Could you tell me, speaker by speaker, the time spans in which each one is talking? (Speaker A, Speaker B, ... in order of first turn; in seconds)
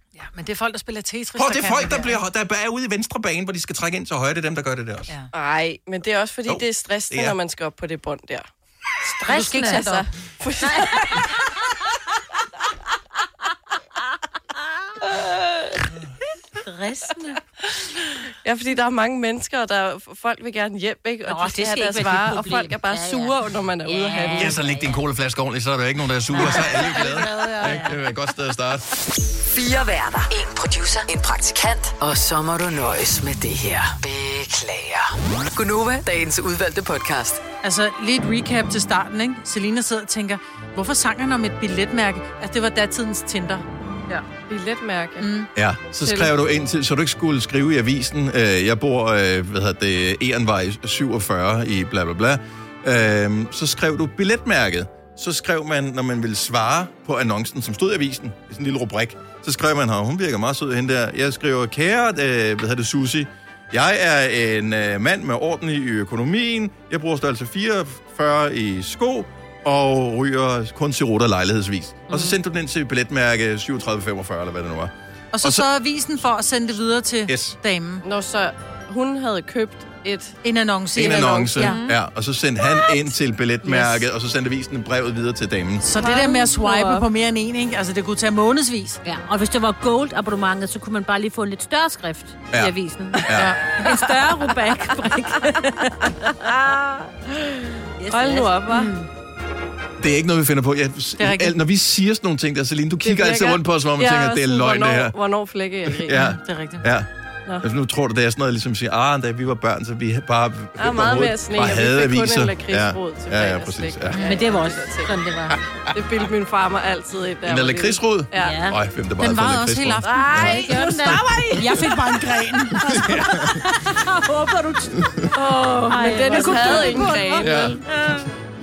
Speaker A: 0.1-2.2, 9.3-10.1, 37.6-44.2, 45.2-45.5, 75.3-78.0, 80.4-81.8, 85.8-89.0, 93.3-94.2, 101.2-101.6, 106.1-106.8, 119.2-120.9, 121.5-123.5
Speaker B: 1.4-5.1, 6.5-7.4, 24.3-28.9, 45.5-75.7, 77.3-77.6, 80.9-85.8, 93.2-93.5, 100.0-105.1, 105.8-107.1, 107.6-114.3, 117.4-121.2, 122.9-123.6, 125.0-125.2, 127.4-127.8
Speaker C: 5.3-8.5, 9.6-11.3, 15.0-15.8, 18.4-24.6, 44.5-45.3, 46.0-46.3, 78.0-80.4, 81.0-81.6, 86.0-87.0, 97.4-98.9, 103.0-106.2, 110.8-115.1, 115.9-118.6, 125.3-127.8
Speaker D: 9.2-9.9, 16.6-17.4, 21.2-25.0, 26.3-28.0, 81.5-82.0, 89.0-96.5, 98.0-99.1, 114.2-115.6, 118.4-118.8, 120.0-121.9, 123.7-125.1, 125.9-128.2
Speaker E: 29.5-37.4